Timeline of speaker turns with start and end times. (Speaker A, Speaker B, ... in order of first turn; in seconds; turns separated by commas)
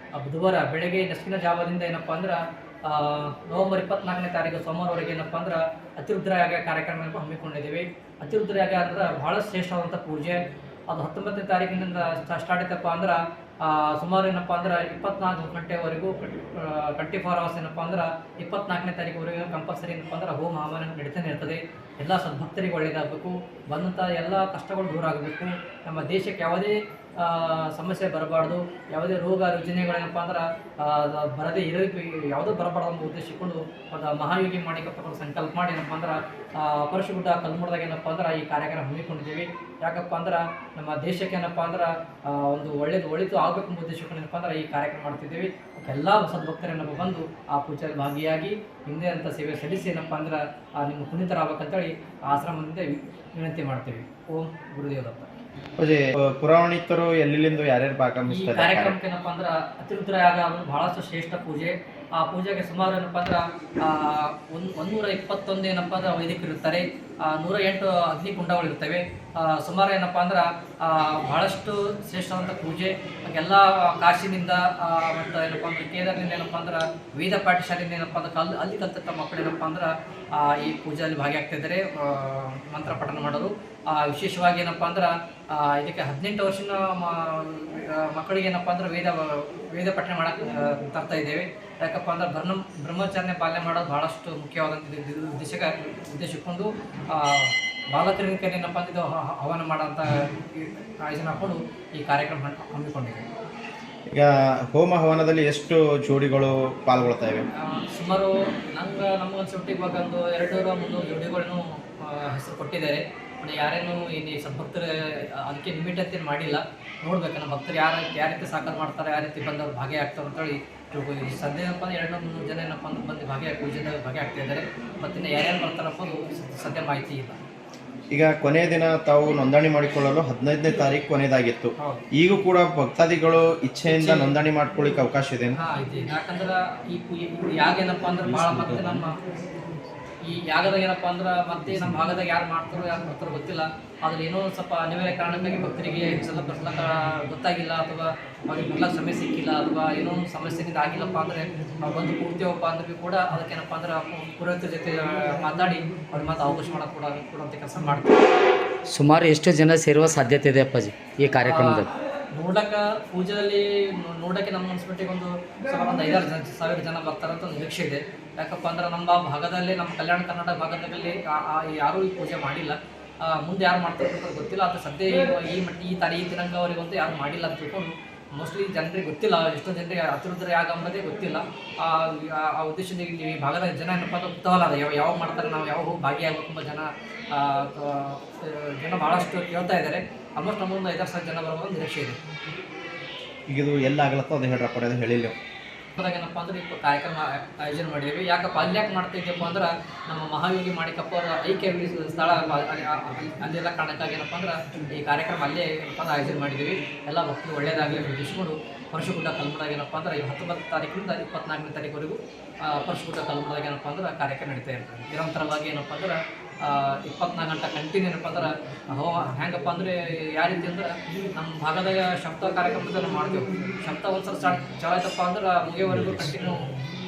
Speaker A: 0.1-55.3, Speaker B: 55.8-58.9, Speaker A: 58.3-103.2, Speaker B: 104.1-107.5, Speaker A: 107.5-127.4, Speaker B: 128.1-135.6, Speaker A: 131.8-132.0, Speaker A: 133.9-134.3, Speaker A: 135.6-139.1, Speaker B: 138.2-139.0, Speaker A: 140.2-158.2, Speaker C: 158.9-161.9, Speaker A: 161.4-192.2, Speaker B: 193.5-195.3, Speaker A: 195.9-226.7